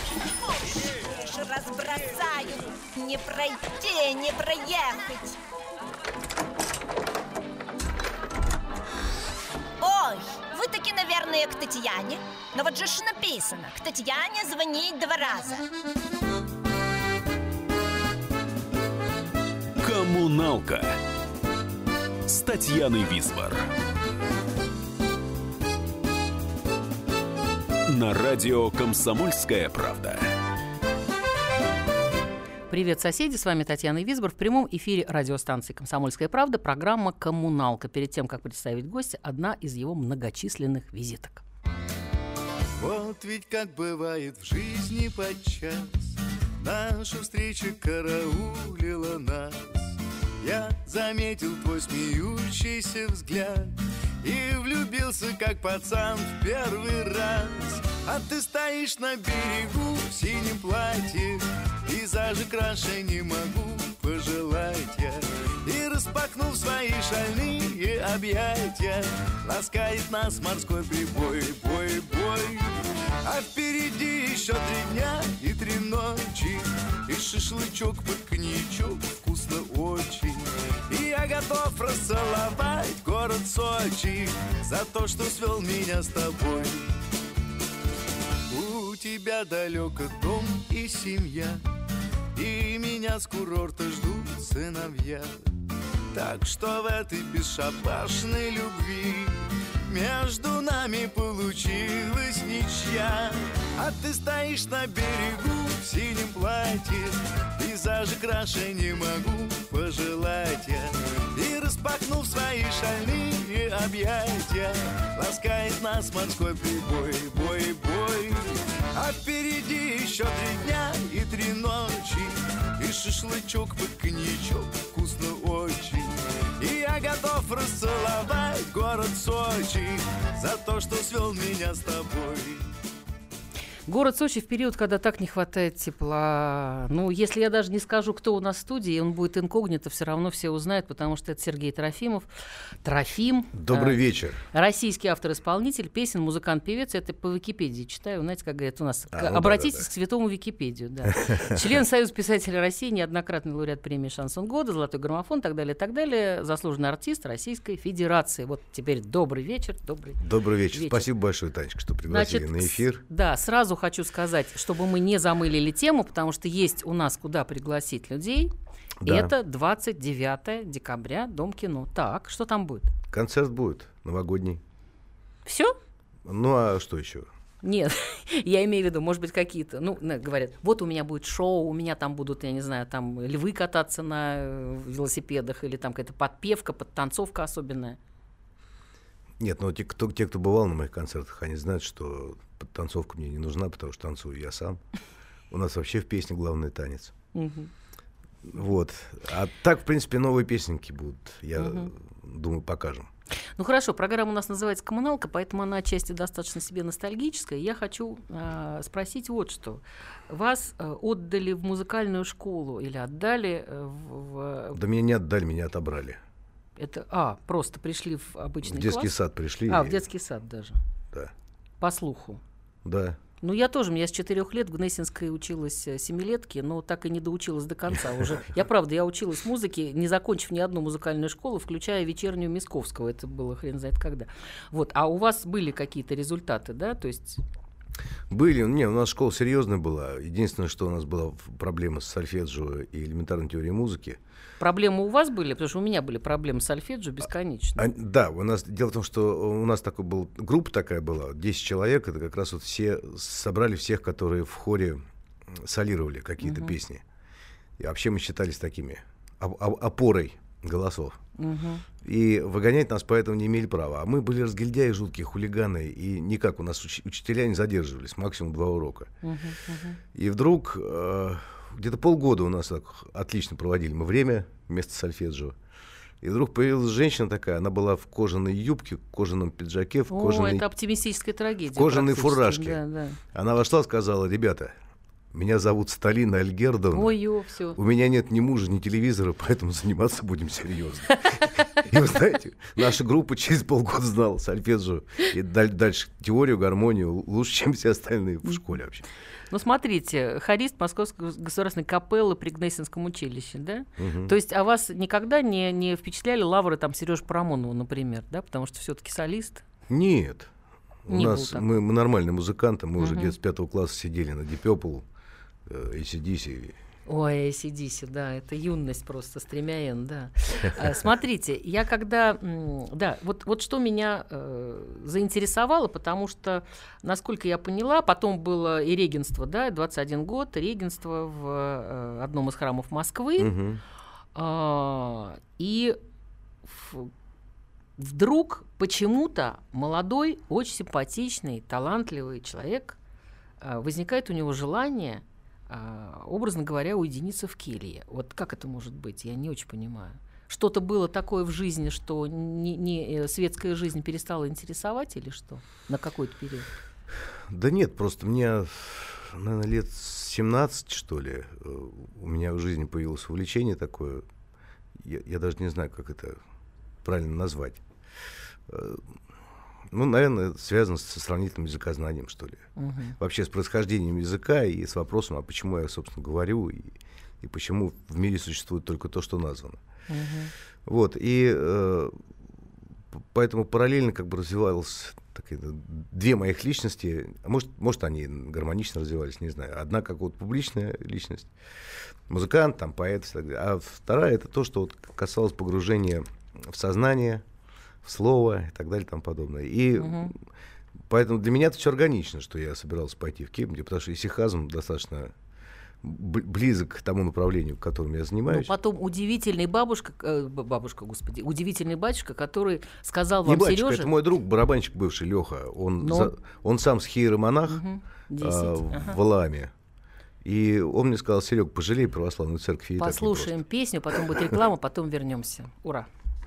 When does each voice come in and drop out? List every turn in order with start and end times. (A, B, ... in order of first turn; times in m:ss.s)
0:00.5-0:05.4 A
0:09.8-0:15.7 A
0:19.8-0:21.0 B
0:22.3-0:23.7 B
0:27.9-0:30.3 B
0:32.7-0:41.4 C
0:42.8-1:12.7 D
1:13.2-1:26.9 D
1:28.5-1:31.6 D
1:32.3-1:35.4 D
1:36.1-2:12.6 D
2:13.9-2:22.3 C
2:22.8-2:41.0 C
2:23.5-2:24.4 E
2:29.1-2:29.8 E
2:31.1-2:31.6 E
2:40.2-2:43.0 E
2:42.1-2:48.5 C
2:49.0-2:49.3 E
2:49.0-2:52.9 C
2:53.1-2:54.6 E
2:55.4-2:55.7 C
2:56.2-2:57.3 E
2:57.6-3:08.0 C
3:09.4-3:14.8 E
3:15.5-3:17.1 E
3:17.3-3:17.7 C
3:18.4-3:23.1 E
3:21.6-3:21.9 C
3:23.6-3:34.8 C
3:34.7-3:36.2 E
3:36.8-3:39.1 C
3:38.6-3:40.0 E
3:39.7-3:40.8 C
3:41.8-3:42.4 C
3:42.8-3:43.2 E
3:43.4-3:57.4 C
3:58.3-4:04.2 E
4:04.6-4:07.9 C
4:07.8-4:17.0 E
4:16.4-4:16.8 C
4:17.8-4:21.2 E
4:21.4-4:21.8 C
4:22.0-4:29.1 E
4:29.2-4:30.0 C
4:30.1-4:35.6 E
4:36.2-4:40.6 E
4:40.1-4:43.2 C
4:41.7-4:42.8 E
4:43.3-4:44.7 E
4:45.3-4:47.1 E
4:46.9-4:47.8 C
4:47.7-4:59.0 E
4:59.5-5:09.6 C
5:04.0-5:04.3 E
5:09.9-5:10.5 E
5:11.0-5:15.0 E
5:11.1-5:11.7 C
5:13.0-5:13.3 C
5:15.6-5:16.8 E
5:17.1-5:33.5 C
5:33.4-5:33.8 E
5:34.3-5:36.0 C
5:36.6-5:37.1 C
5:38.0-5:43.0 C
5:43.6-5:56.7 C
5:57.5-6:04.2 E
6:05.0-6:06.4 E
6:07.0-6:07.8 E
6:08.7-6:09.0 E
6:09.9-6:12.6 E
6:12.8-6:13.2 C
6:13.2-6:19.8 E
6:20.1-6:20.5 C
6:20.8-6:22.2 E
6:23.1-6:31.5 E
6:32.3-6:37.4 E
6:38.0-6:40.4 E
6:40.0-6:40.3 C
6:41.1-6:45.3 E
6:46.0-6:48.7 E
6:48.5-6:54.1 C
6:53.4-6:57.8 E
6:56.0-6:56.3 C
6:57.7-6:59.2 C
6:58.4-6:59.7 E
7:00.4-7:03.6 E
7:03.0-7:06.1 C